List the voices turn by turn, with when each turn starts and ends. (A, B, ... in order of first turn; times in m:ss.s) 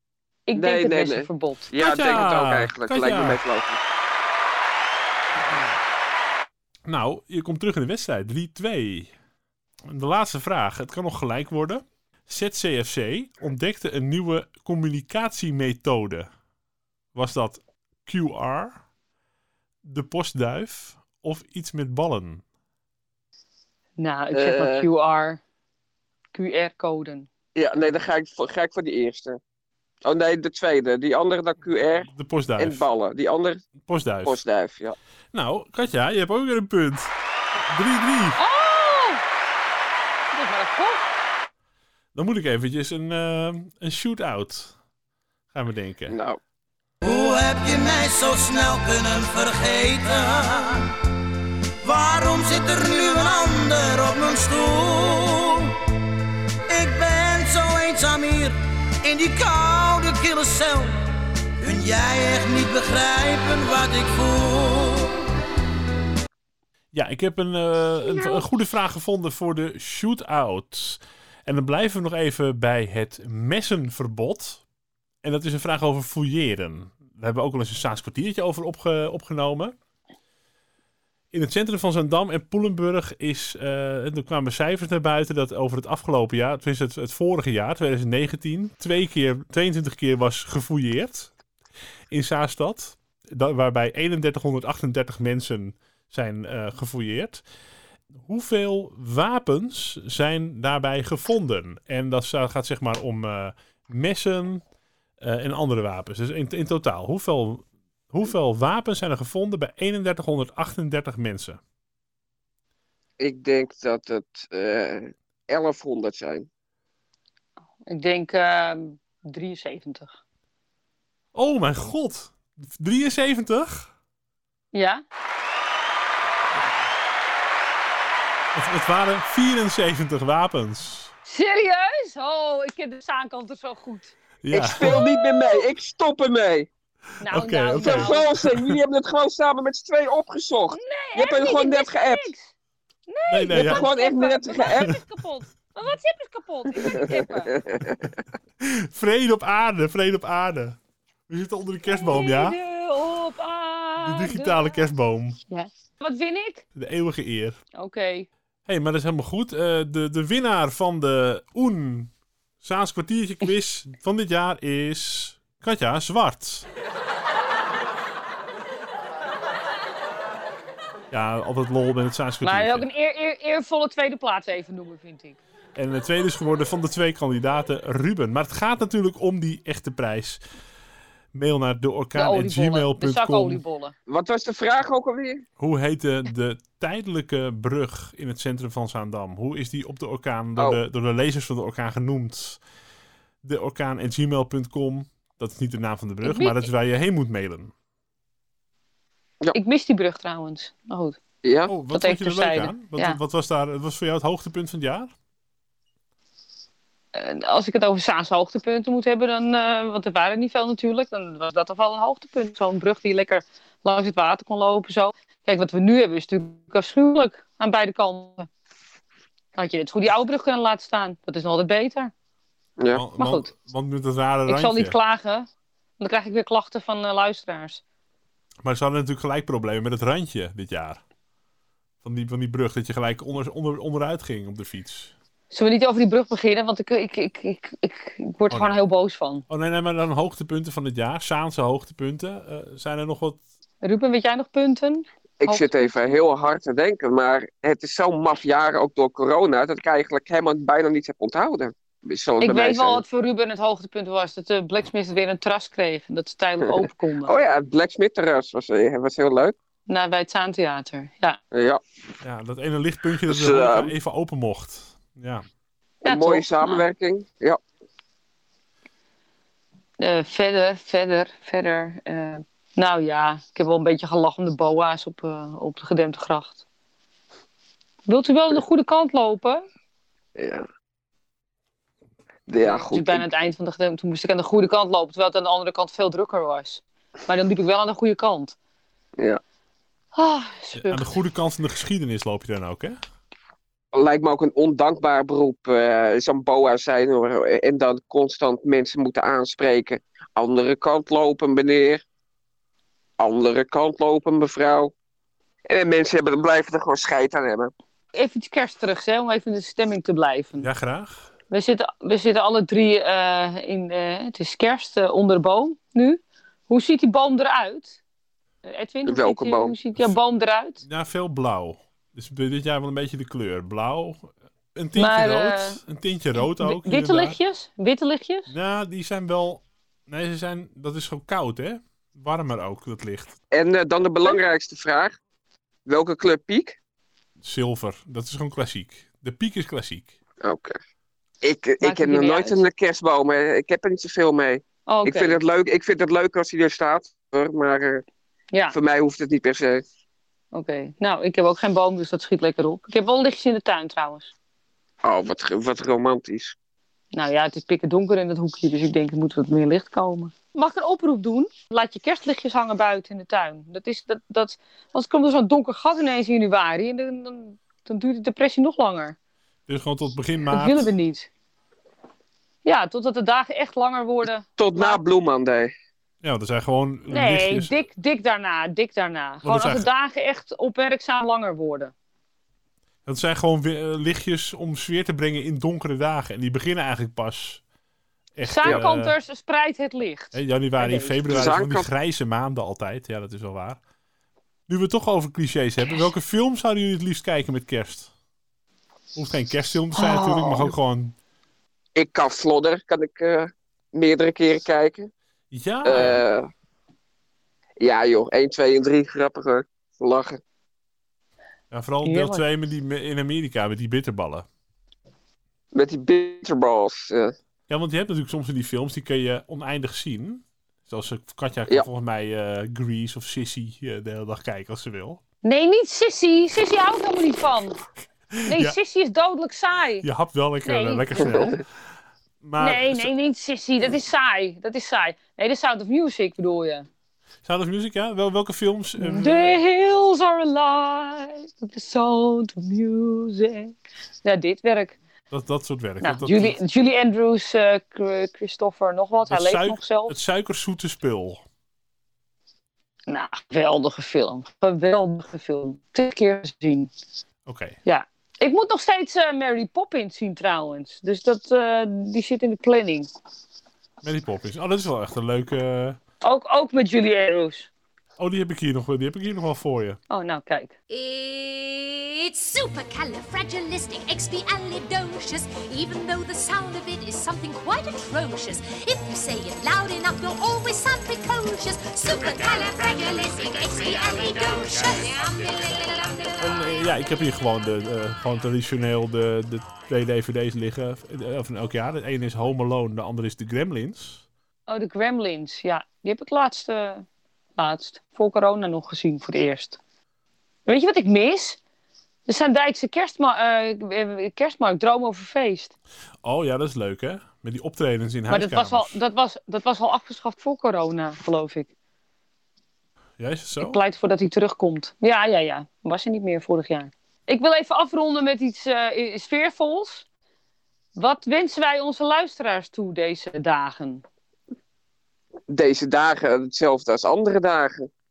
0:00.5-0:01.7 A
0:00.5-0:03.8 B
0:01.8-0:03.4 C
0:06.8-0:09.1 C
0:09.8-0:16.3 C
0:17.1-0:18.8 C
0:19.8-0:22.4 C
0:24.0-0:25.4 A
0:24.3-0:24.8 B
0:26.3-0:27.3 A
0:27.5-0:29.4 B
0:30.0-0:33.7 B
0:32.1-0:32.8 C
0:33.8-0:34.4 C
0:34.2-0:35.0 B
0:35.3-0:38.4 C
0:38.4-0:39.2 A
0:40.3-0:41.1 A
0:42.1-0:44.7 C
0:45.5-0:46.2 C
0:46.1-0:46.4 B
0:47.0-0:50.9 D
0:51.8-0:55.7 D
0:56.7-1:01.0 D
1:01.6-1:05.2 D
1:06.9-1:14.6 C
1:15.2-1:19.7 C
1:21.3-1:31.3 C
1:32.1-1:37.4 C
1:38.1-1:44.6 C
1:45.2-1:51.6 C
1:53.2-1:56.5 B
1:57.8-2:00.1 A
2:01.3-2:03.9 C
2:04.7-2:05.0 A
2:08.5-2:11.1 C
2:11.2-2:15.6 A
2:14.4-2:15.0 C
2:14.6-2:16.7 B
2:17.2-2:18.3 A
2:17.3-2:18.8 C
2:17.8-2:22.3 B
2:20.7-2:22.5 A
2:23.1-2:27.6 A
2:23.3-2:23.9 C
2:23.5-2:25.0 B
2:26.9-2:28.0 B
2:28.6-2:32.6 C
2:31.8-2:34.8 A
2:34.0-2:35.4 C
2:35.5-2:36.6 A
2:36.7-2:37.6 C
2:37.7-2:38.3 A
2:38.6-2:46.7 C
2:51.1-2:52.9 C
2:52.4-2:55.4 A
2:55.7-3:00.4 C
3:01.3-3:03.6 C
3:02.2-3:03.9 A
3:04.1-3:05.4 B
3:05.6-3:12.6 C
3:13.4-3:17.7 C
3:16.2-3:16.7 A
3:19.5-3:21.2 A
3:21.4-3:21.7 B
3:21.7-3:25.1 C
3:21.9-3:23.2 A
3:27.1-3:38.5 A
3:39.6-3:42.1 A
3:42.9-3:45.0 C
3:43.2-3:43.5 A
3:44.5-3:45.5 A
3:46.0-3:47.8 A
3:48.6-3:51.0 C
3:52.0-3:55.1 C
3:55.5-3:59.4 A
3:58.5-3:58.8 C
3:59.5-4:03.4 C
4:03.8-4:05.9 A
4:05.4-4:13.0 B
4:12.4-4:17.3 A
4:16.6-4:19.5 B
4:19.9-4:21.4 A
4:21.5-4:21.8 B
4:22.2-4:25.4 C
4:23.2-4:23.9 B
4:26.0-4:26.8 A
4:26.0-4:27.6 B
4:30.0-4:36.6 A
4:38.1-4:39.6 A
4:40.4-4:40.6 B
4:42.5-4:43.2 B
4:42.6-4:48.6 A
4:50.1-4:51.1 A
4:50.7-4:53.0 C
4:53.9-5:02.0 B
5:03.2-5:04.9 B
5:05.7-5:07.7 B
5:08.1-5:10.7 A
5:10.6-5:11.3 C
5:11.5-5:18.0 A
5:18.6-5:20.8 A
5:19.0-5:19.7 B
5:20.8-5:27.4 C
5:25.0-5:25.8 A
5:26.4-5:28.5 A
5:28.5-5:33.4 C
5:33.5-5:35.2 B
5:35.8-5:36.8 B
5:37.4-5:40.2 C
5:40.4-5:40.8 B
5:41.4-5:48.0 B
5:41.8-5:42.6 A
5:44.9-5:45.4 A
5:48.7-5:49.8 B
5:50.5-5:54.3 A
5:55.0-5:56.6 B
5:57.1-6:09.2 A
6:09.7-6:10.9 C
6:10.5-6:11.3 A
6:12.6-6:15.0 A
6:14.6-6:15.7 B
6:16.2-6:17.8 C
6:17.1-6:21.9 A
6:19.4-6:19.9 C
6:23.0-6:27.6 C
6:28.3-6:29.1 C
6:28.4-6:31.4 A
6:30.3-6:33.8 C
6:31.3-6:31.9 B
6:34.7-6:38.1 C
6:39.1-6:41.2 C
6:39.9-6:40.7 A
6:42.0-6:45.1 B
6:45.5-6:46.2 C
6:45.8-6:46.5 B
6:47.8-6:50.4 B
6:51.7-6:54.4 C
6:52.0-6:52.4 A
6:55.7-6:57.3 B
6:57.7-7:05.2 C
7:05.4-7:07.8 A
7:08.3-7:08.8 C
7:08.5-7:10.0 A
7:10.0-7:11.6 C
7:10.6-7:11.5 A
7:12.4-7:13.1 C
7:12.6-7:16.9 A
7:17.4-7:19.6 C
7:19.0-7:25.0 A
7:25.3-7:26.6 C
7:26.0-7:30.2 A
7:29.2-7:31.4 C
7:33.1-7:36.9 A
7:37.4-7:37.8 C
7:37.8-7:43.1 A
7:44.0-7:46.0 C
7:46.2-7:47.7 A
7:48.2-7:50.0 C
7:50.1-7:50.7 A
7:50.9-8:06.4 E
8:06.4-8:14.2 C
8:14.7-8:17.0 A
8:17.6-8:19.8 A
8:20.6-8:21.6 A
8:22.2-8:25.7 A
8:26.2-8:29.0 C
8:28.3-8:31.7 A
8:33.2-8:33.8 C
8:33.6-8:40.0 A
8:41.0-8:44.0 A
8:45.5-8:47.9 B